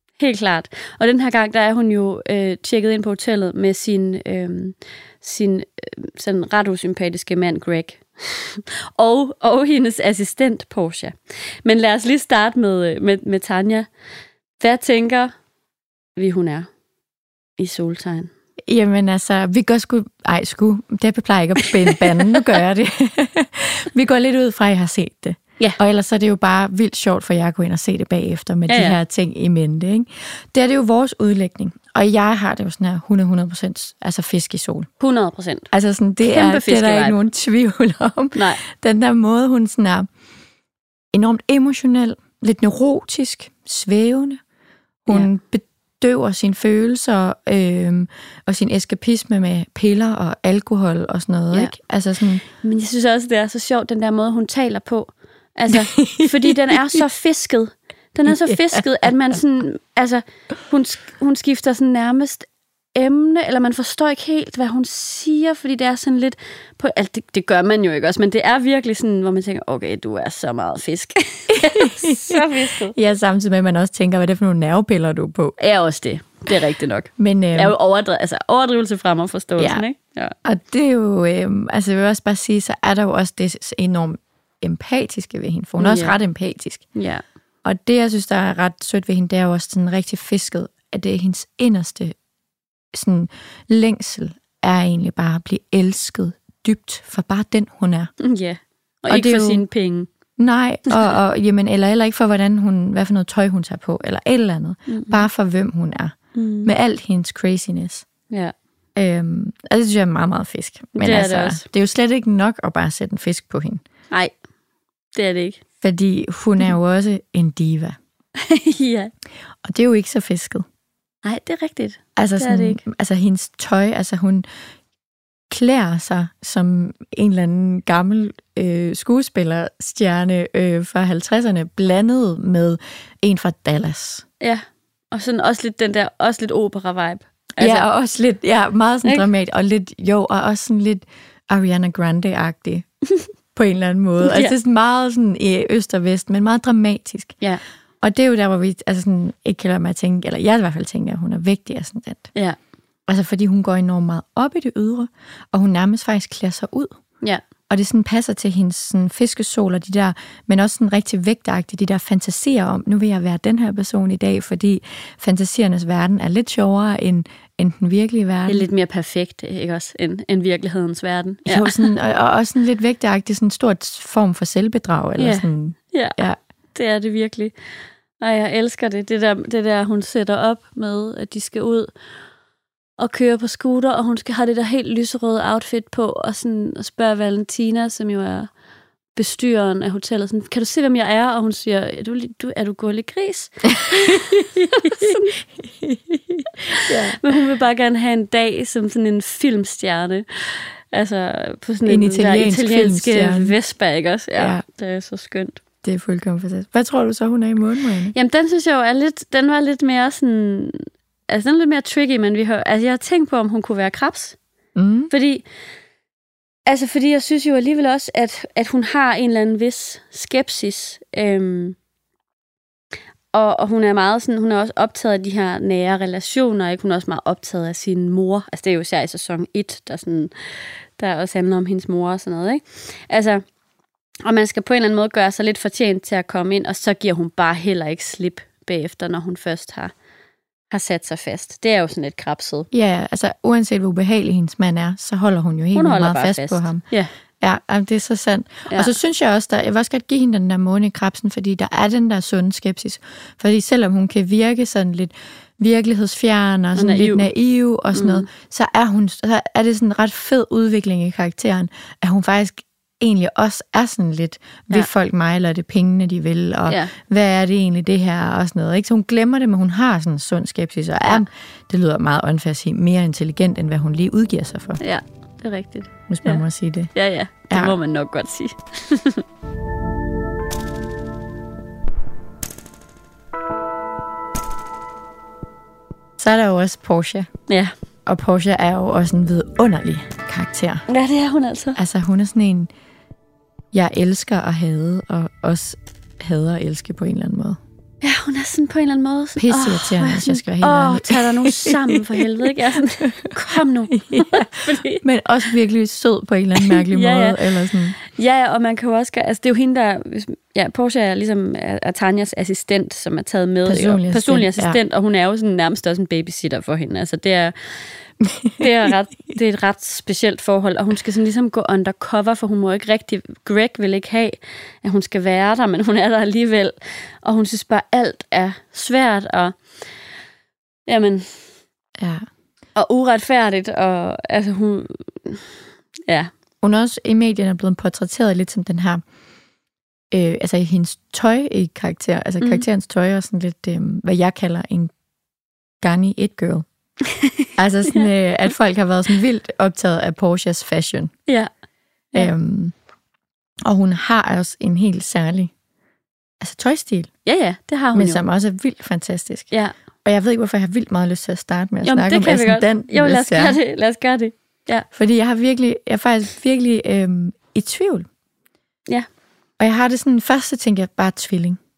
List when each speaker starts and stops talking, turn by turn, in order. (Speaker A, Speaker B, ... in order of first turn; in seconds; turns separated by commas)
Speaker A: 0.2-13.9, Speaker A: 14.6-15.3, Speaker A: 16.2-16.7, Speaker A: 17.6-18.3, Speaker B: 18.7-34.9, Speaker A: 21.6-22.1, Speaker A: 28.7-29.0, Speaker A: 35.0-35.7, Speaker B: 35.7-40.1, Speaker A: 36.2-37.2, Speaker A: 38.4-38.6, Speaker B: 41.1-44.4, Speaker B: 45.1-52.4, Speaker A: 52.6-73.0, Speaker B: 55.7-57.0, Speaker B: 58.3-58.9, Speaker B: 71.6-75.6, Speaker A: 75.6-80.3, Speaker B: 77.2-77.7, Speaker B: 79.6-79.8, Speaker B: 80.4-86.9, Speaker A: 85.8-86.2, Speaker A: 87.0-87.2, Speaker B: 87.7-92.1, Speaker B: 92.9-98.1, Speaker A: 98.2-100.1, Speaker B: 99.1-99.6, Speaker B: 100.4-108.1, Speaker A: 104.9-105.2, Speaker A: 106.3-106.7, Speaker B: 109.0-113.8, Speaker A: 111.0-111.6, Speaker A: 115.2-115.6, Speaker B: 115.8-118.0, Speaker A: 118.4-119.1, Speaker B: 119.6-120.7, Speaker A: 121.2-122.8, Speaker B: 122.2-124.5, Speaker B: 125.5-134.2, Speaker A: 134.4-137.9, Speaker B: 137.6-142.9, Speaker B: 143.6-147.4, Speaker A: 144.2-144.5, Speaker B: 148.0-152.3, Speaker B: 153.1-156.9, Speaker B: 157.7-168.7, Speaker A: 168.5-171.9, Speaker B: 171.5-176.4, Speaker A: 175.2-176.2, Speaker A: 176.7-177.5, Speaker A: 178.2-181.9, Speaker A: 183.0-188.5, Speaker A: 189.2-195.3, Speaker B: 193.9-195.2, Speaker B: 195.7-197.2, Speaker A: 196.7-205.6, Speaker B: 201.9-203.5, Speaker B: 204.3-204.6, Speaker B: 205.8-208.2, Speaker A: 208.1-214.4, Speaker B: 214.8-215.1, Speaker A: 215.1-215.4, Speaker A: 216.7-221.8, Speaker A: 223.3-230.3, Speaker A: 231.0-233.4, Speaker A: 234.2-239.9, Speaker A: 240.7-242.7, Speaker B: 242.7-246.8, Speaker A: 245.8-247.1, Speaker B: 247.4-274.8, Speaker A: 256.8-257.3, Speaker A: 257.9-258.3, Speaker A: 274.8-276.4, Speaker B: 276.1-276.9, Speaker A: 276.9-279.2, Speaker B: 277.5-277.8, Speaker B: 286.2-287.3, Speaker B: 288.1-290.9, Speaker A: 290.9-291.8, Speaker B: 291.8-292.7, Speaker B: 293.7-297.6, Speaker A: 298.0-305.0, Speaker B: 299.4-302.5, Speaker B: 303.0-304.5, Speaker B: 305.0-308.0, Speaker A: 306.6-307.4, Speaker A: 308.0-317.5, Speaker B: 313.6-314.8, Speaker B: 318.2-318.6, Speaker A: 318.6-329.6, Speaker A: 330.9-331.3, Speaker B: 332.0-332.2, Speaker A: 332.8-335.5, Speaker B: 336.6-339.0, Speaker B: 340.1-344.9, Speaker B: 345.8-346.7, Speaker A: 347.2-348.0, Speaker B: 347.6-351.1, Speaker B: 352.1-352.7, Speaker B: 353.6-355.5, Speaker B: 356.4-357.1, Speaker A: 357.3-358.2, Speaker B: 357.9-359.5, Speaker B: 360.1-363.6, Speaker A: 361.9-364.9, Speaker B: 364.9-368.1, Speaker B: 369.6-371.6